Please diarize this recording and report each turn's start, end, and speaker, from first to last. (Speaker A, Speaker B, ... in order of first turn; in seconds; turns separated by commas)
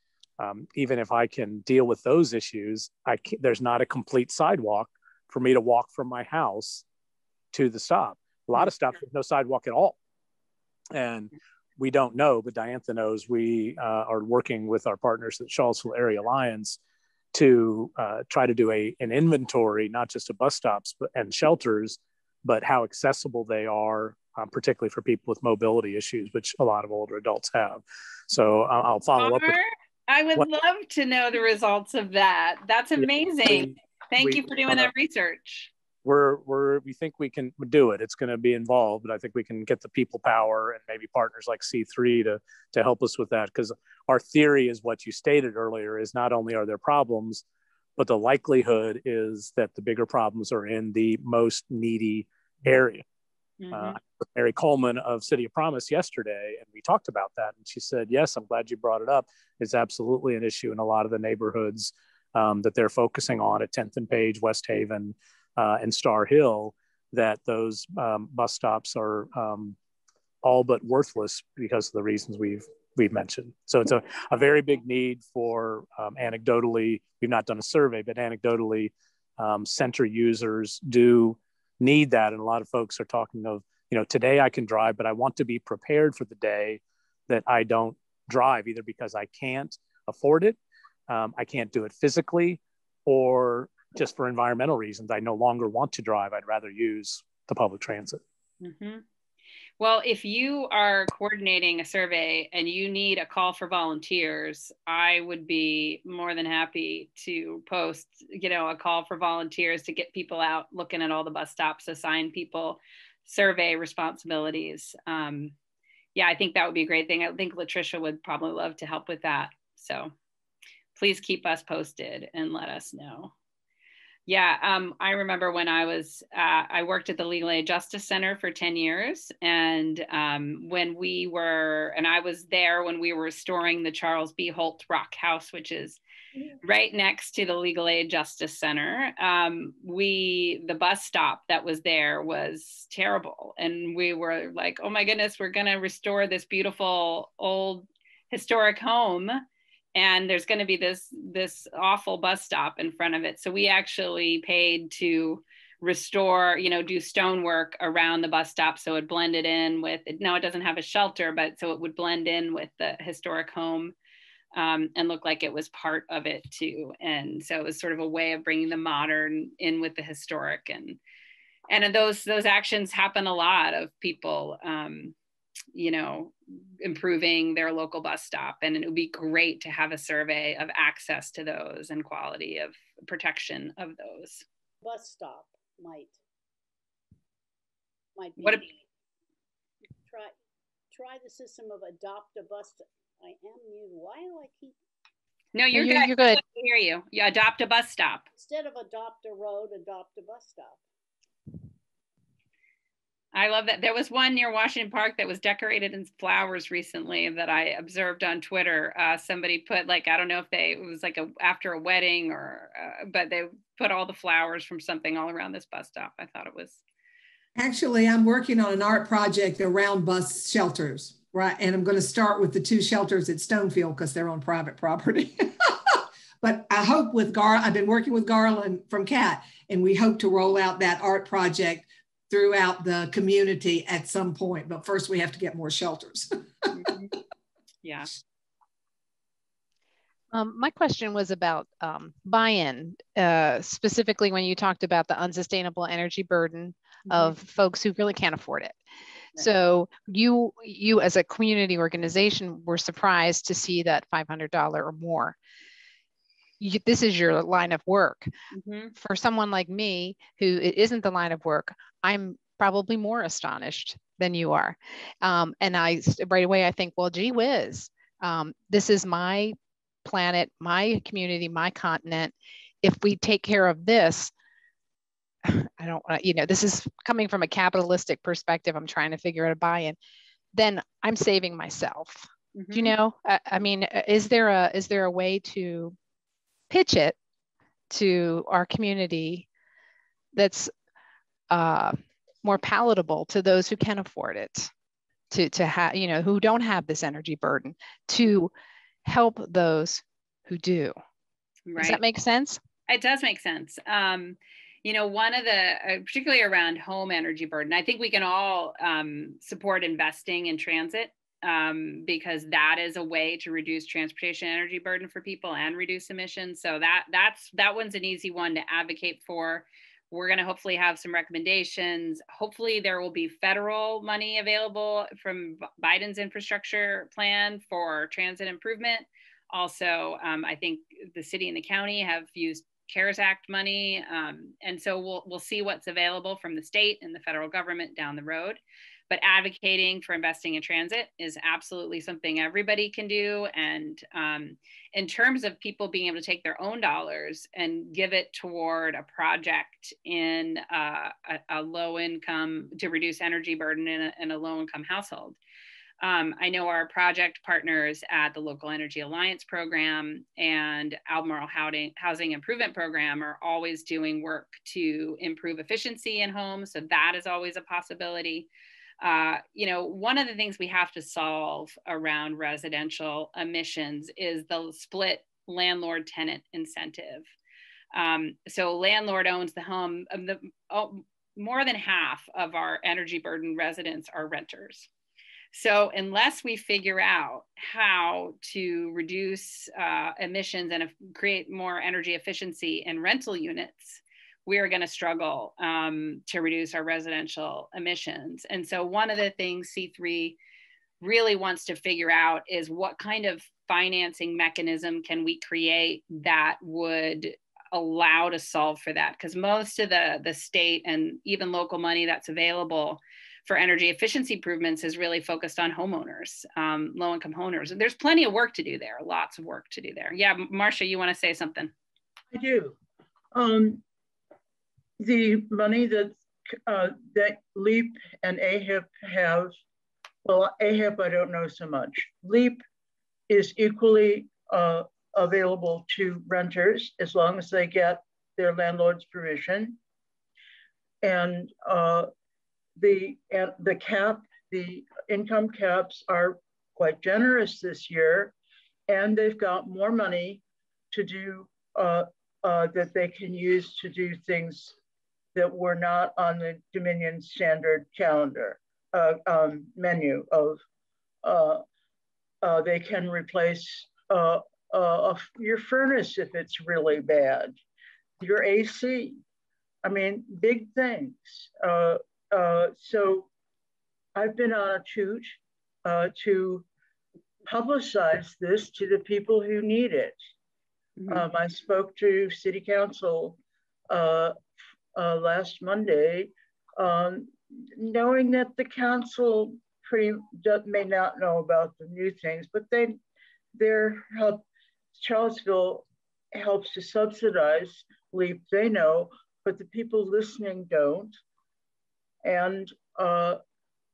Speaker A: 0.4-6.8, Speaker A: 7.5-10.0, Speaker A: 10.9-16.8, Speaker A: 17.3-29.6, Speaker B: 29.2-35.7, Speaker A: 33.0-34.9, Speaker A: 36.0-47.4, Speaker A: 48.0-53.0, Speaker B: 53.6-54.0, Speaker A: 53.7-69.8, Speaker A: 70.4-90.6, Speaker A: 91.1-98.2, Speaker B: 98.6-99.0, Speaker B: 99.8-115.5, Speaker B: 116.2-120.1, Speaker B: 121.0-123.3, Speaker B: 124.3-136.0, Speaker B: 136.6-149.4, Speaker B: 149.9-163.9, Speaker B: 164.5-171.0, Speaker B: 171.7-175.2, Speaker B: 175.7-184.5, Speaker C: 184.8-186.2, Speaker C: 188.2-188.8, Speaker B: 188.4-188.7, Speaker C: 190.1-190.3, Speaker C: 190.9-194.8, Speaker B: 195.5-198.3, Speaker D: 195.7-196.4, Speaker C: 198.4-200.8, Speaker B: 203.3-216.8, Speaker E: 217.6-236.7, Speaker B: 236.7-237.1, Speaker B: 237.8-238.1, Speaker D: 240.3-248.8, Speaker B: 247.1-247.3, Speaker D: 249.4-255.4, Speaker D: 256.6-258.3, Speaker B: 258.5-258.9, Speaker D: 259.0-274.3, Speaker D: 275.4-280.0, Speaker D: 280.5-285.9, Speaker B: 282.6-282.9, Speaker D: 286.7-287.2, Speaker D: 287.9-289.5, Speaker D: 290.3-290.7, Speaker D: 291.5-294.7, Speaker D: 295.3-298.5, Speaker D: 299.1-300.9, Speaker B: 301.7-302.0, Speaker D: 301.8-302.6, Speaker B: 302.9-355.4, Speaker B: 356.0-368.5, Speaker B: 369.0-377.3, Speaker B: 377.9-384.9, Speaker B: 385.5-400.4, Speaker B: 401.0-421.7, Speaker F: 422.3-422.8, Speaker F: 423.3-423.8, Speaker F: 425.0-429.5, Speaker F: 430.2-432.6, Speaker F: 433.3-439.8, Speaker F: 441.0-442.1, Speaker F: 442.8-448.4, Speaker F: 448.9-454.8, Speaker F: 455.4-460.6, Speaker F: 461.2-461.6, Speaker F: 462.4-467.6, Speaker F: 468.2-469.2, Speaker F: 469.8-473.3, Speaker F: 474.1-476.7, Speaker F: 477.5-480.2, Speaker B: 481.0-481.2, Speaker F: 481.1-483.4, Speaker F: 483.9-484.4, Speaker F: 484.9-493.0, Speaker F: 493.5-501.2, Speaker F: 502.2-503.4